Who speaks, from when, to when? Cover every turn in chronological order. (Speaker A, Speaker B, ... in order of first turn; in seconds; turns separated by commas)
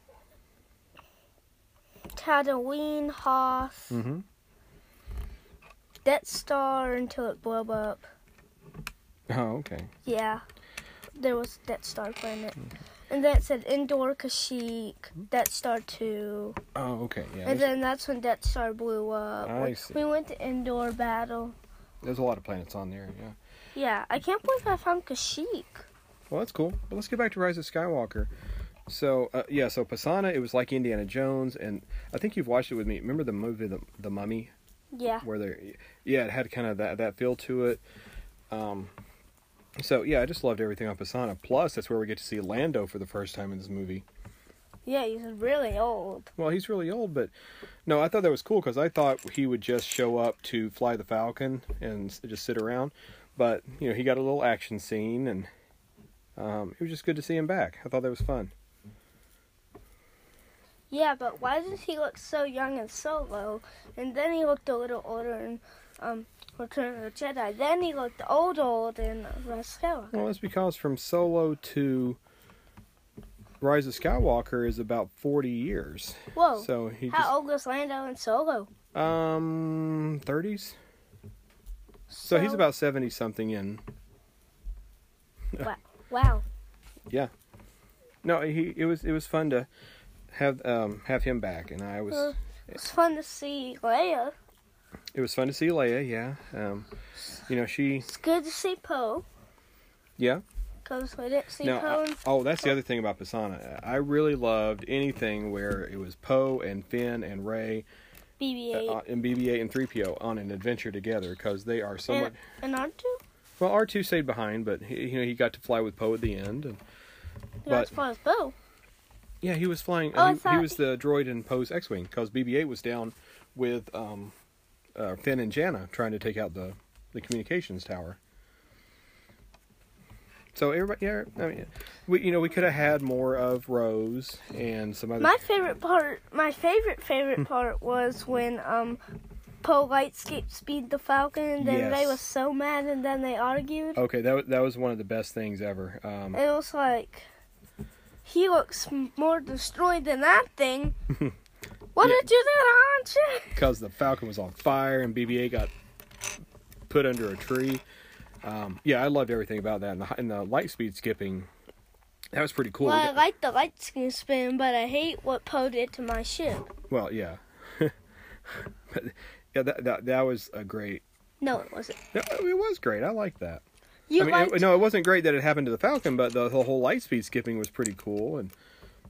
Speaker A: 2.1-4.0, Speaker B: 3.9-4.2, Speaker A: 6.0-8.1, Speaker B: 9.3-9.9, Speaker A: 10.1-10.4, Speaker A: 11.2-16.6, Speaker B: 16.8-17.7, Speaker A: 17.4-21.6, Speaker B: 19.4-20.0, Speaker B: 22.0-23.4, Speaker A: 23.8-25.9, Speaker B: 26.3-28.3, Speaker B: 28.9-34.5, Speaker A: 34.9-35.2, Speaker B: 35.2-37.8, Speaker B: 38.5-38.9, Speaker B: 39.8-44.1, Speaker A: 44.9-46.3, Speaker B: 46.4-47.3, Speaker B: 47.9-55.5, Speaker B: 56.4-58.5, Speaker A: 60.9-70.3, Speaker B: 70.1-72.2, Speaker B: 73.6-77.3, Speaker A: 76.3-78.7, Speaker B: 78.9-80.8, Speaker A: 82.1-82.6, Speaker B: 82.2-83.8, Speaker A: 85.6-86.4, Speaker B: 88.2-89.7, Speaker B: 90.3-92.3, Speaker A: 92.1-94.3, Speaker B: 95.1-96.9, Speaker B: 97.5-98.1, Speaker A: 98.0-99.3, Speaker B: 100.2-100.4, Speaker A: 100.8-102.2, Speaker B: 101.6-107.9, Speaker A: 108.4-109.0, Speaker B: 108.7-112.4, Speaker A: 112.1-113.2, Speaker B: 113.6-116.8, Speaker A: 117.7-118.5, Speaker B: 119.4-124.3, Speaker A: 120.2-120.8, Speaker B: 125.0-128.2, Speaker B: 130.5-135.4, Speaker A: 135.2-139.0, Speaker A: 139.6-144.0, Speaker B: 141.6-142.2, Speaker B: 144.0-146.4, Speaker A: 146.3-147.3, Speaker A: 148.2-150.9, Speaker A: 152.0-153.6, Speaker B: 153.6-155.7, Speaker B: 156.9-157.8, Speaker B: 158.4-161.5, Speaker B: 162.3-163.2, Speaker A: 162.8-166.7, Speaker B: 166.9-167.9, Speaker B: 168.5-171.0, Speaker A: 171.4-172.0, Speaker B: 172.1-173.6, Speaker A: 174.1-174.8, Speaker B: 174.2-178.5